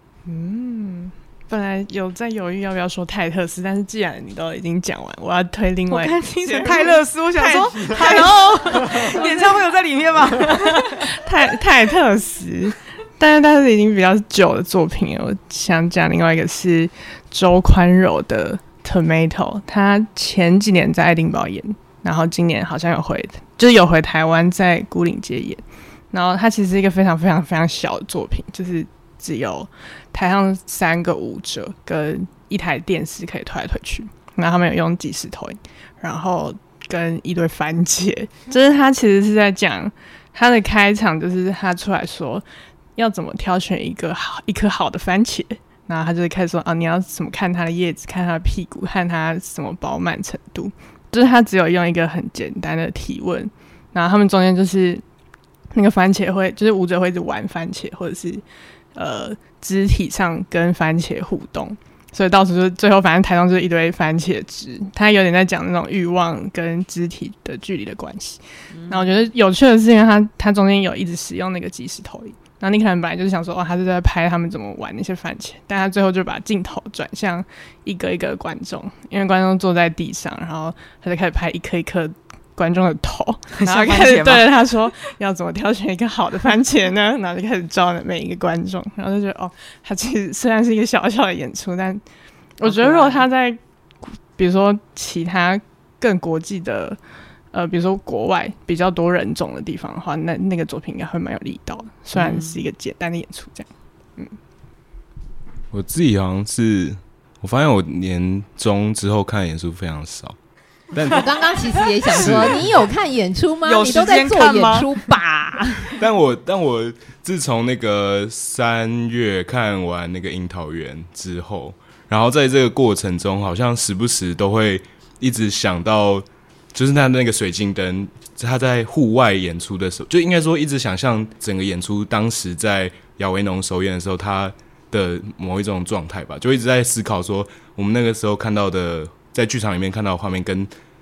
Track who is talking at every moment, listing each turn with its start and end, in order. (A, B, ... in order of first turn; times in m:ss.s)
0:00.2-0:09.7 A
0:05.9-0:10.9 B
0:10.6-0:55.0 A
0:55.7-1:44.4 A
1:23.5-1:24.5 B
1:32.6-1:33.2 B
1:42.1-1:42.6 B
1:45.7-1:50.4 C
1:50.9-1:52.8 C
1:51.1-1:56.0 D
1:52.2-1:52.4 B
1:53.6-1:55.0 B
1:56.0-2:20.7 C